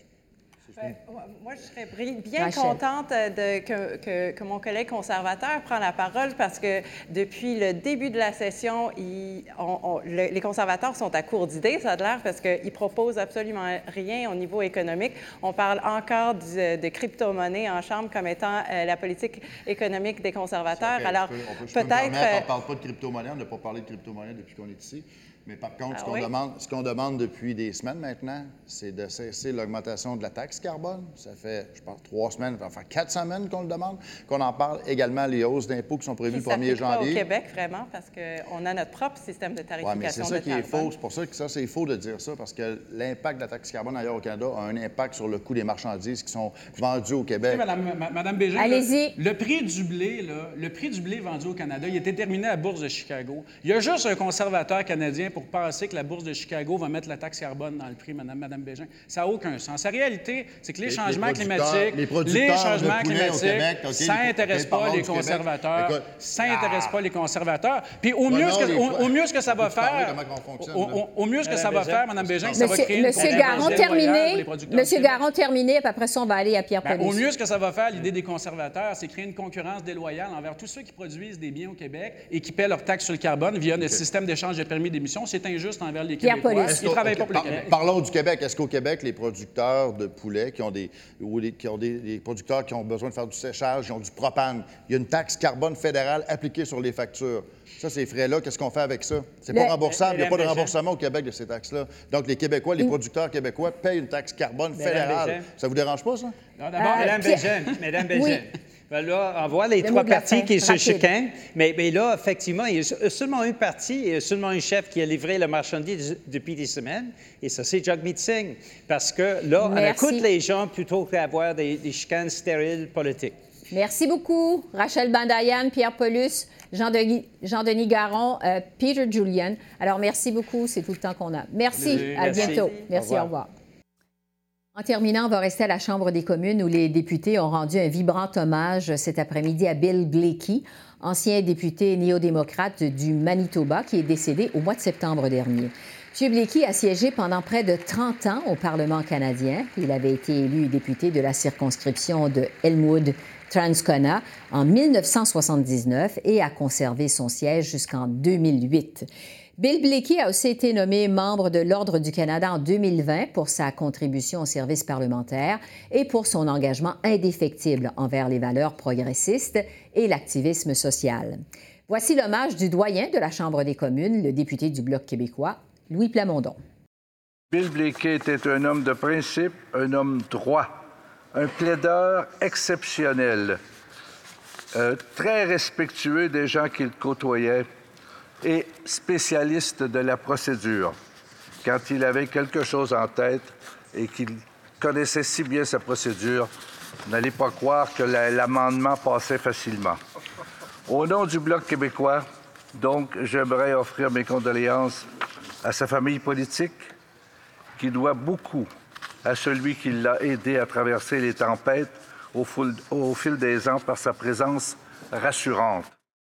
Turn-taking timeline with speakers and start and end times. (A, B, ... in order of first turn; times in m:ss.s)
0:00.7-0:22.4 A
0:02.4-0:02.8 B
0:20.8-0:37.2 C
0:25.9-0:26.2 A
0:36.3-0:40.9 A
0:39.8-0:47.6 C
0:47.5-1:15.2 D
0:48.6-0:49.1 B
1:00.8-1:06.9 C
1:08.3-1:11.0 C
1:11.4-1:14.0 E
1:12.3-1:12.5 C
1:12.6-1:17.2 B
1:16.8-1:27.7 D
1:26.2-1:26.8 B
1:26.6-1:46.3 C
1:39.8-1:40.8 E
1:44.7-1:45.4 E
1:46.6-1:47.8 D
1:46.7-2:03.3 E
1:46.8-1:47.5 B
1:48.1-1:48.4 B
1:49.8-1:51.1 B
1:59.6-2:00.3 B
2:03.7-2:13.5 B
2:11.7-2:13.3 E
2:11.8-2:12.7 D
2:14.8-2:56.6 B
2:57.5-3:00.8 F
3:01.3-3:03.6 F
3:04.7-3:07.7 F
3:08.4-3:11.0 F
3:11.6-3:16.5 F
3:17.1-3:20.0 F
3:20.9-3:25.0 F
3:25.6-3:26.9 F
3:27.8-3:28.7 F
3:29.2-3:35.9 F